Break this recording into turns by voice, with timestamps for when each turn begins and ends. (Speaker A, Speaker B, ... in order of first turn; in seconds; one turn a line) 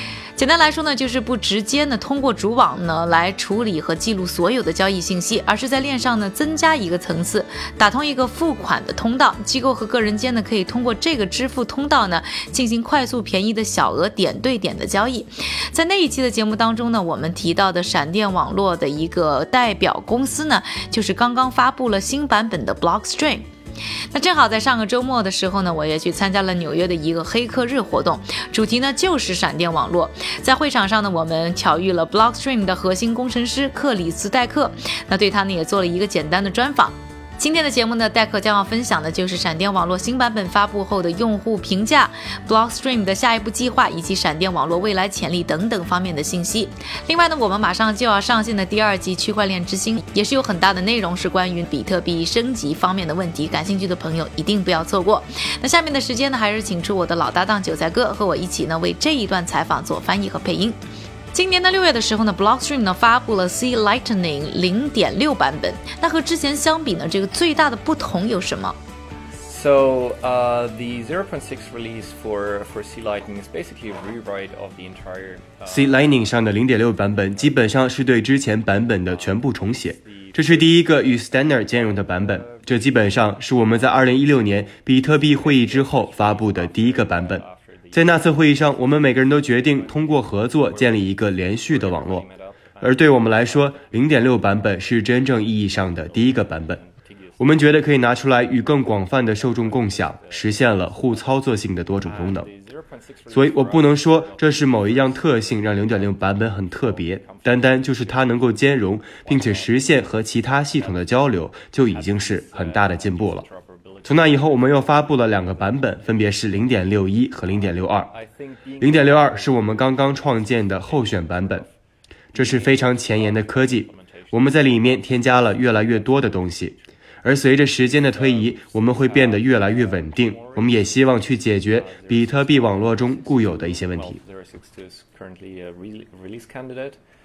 Speaker A: 0.4-23.5
Speaker A: 24.1-60.8
Speaker A: 61.3-68.8
Speaker B: 69.4-76.2
Speaker C: 75.7-92.3
Speaker B: 77.2-111.2
Speaker C: 92.8-96.8
Speaker C: 97.4-102.5
Speaker C: 103.3-113.5
Speaker B: 111.8-121.7
Speaker C: 114.0-118.1
Speaker C: 118.8-121.7
Speaker B: 122.3-126.7
Speaker C: 122.3-134.2
Speaker B: 127.7-137.0